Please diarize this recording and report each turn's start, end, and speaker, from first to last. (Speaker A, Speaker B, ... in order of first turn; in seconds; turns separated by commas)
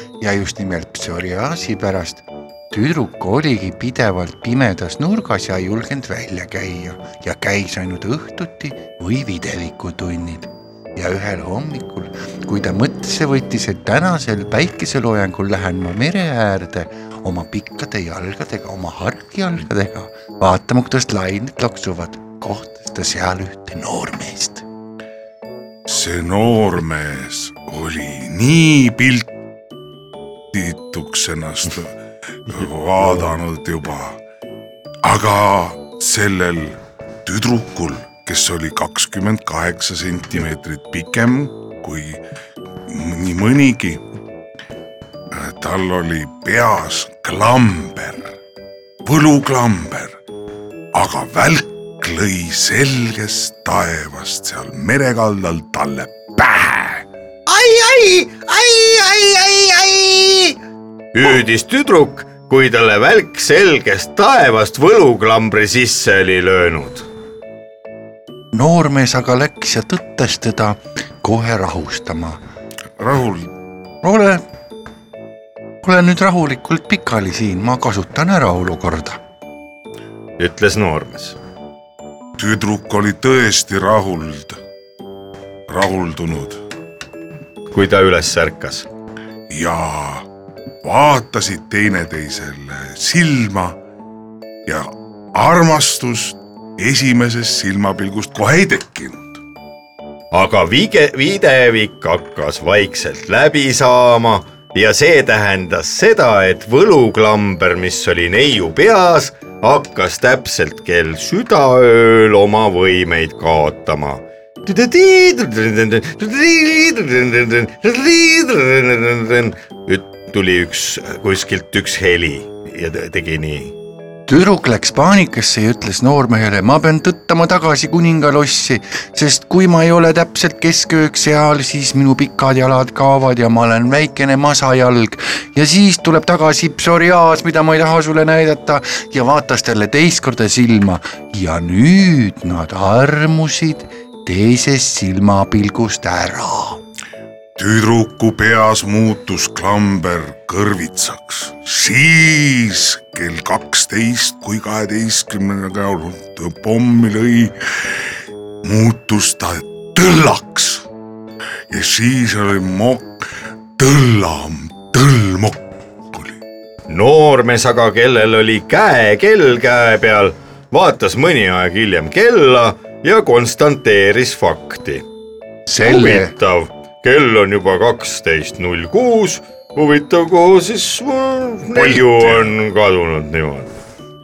Speaker A: 0.2-24.6, Speaker B: 25.9-29.3, Speaker B: 30.5-31.9, Speaker B: 32.5-34.2, Speaker B: 35.0-42.2, Speaker B: 42.9-44.0, Speaker B: 45.3-48.4, Speaker B: 49.0-50.1, Speaker B: 50.9-57.0, Speaker C: 57.5-60.5, Speaker C: 61.1-67.1, Speaker A: 68.5-72.4, Speaker B: 73.0-73.5, Speaker A: 74.0-74.4, Speaker A: 75.8-79.2, Speaker C: 80.4-81.4, Speaker B: 82.4-84.6, Speaker B: 85.7-86.6, Speaker C: 87.7-88.9, Speaker B: 89.5-90.2, Speaker B: 90.8-93.8, Speaker B: 94.7-99.4, Speaker C: 100.3-123.7, Speaker A: 124.3-146.8, Speaker B: 147.6-157.5, Speaker B: 158.6-160.8, Speaker B: 161.7-163.2, Speaker B: 163.8-166.4, Speaker C: 166.9-175.1, Speaker A: 175.7-176.3, Speaker C: 175.8-183.7, Speaker B: 181.8-182.5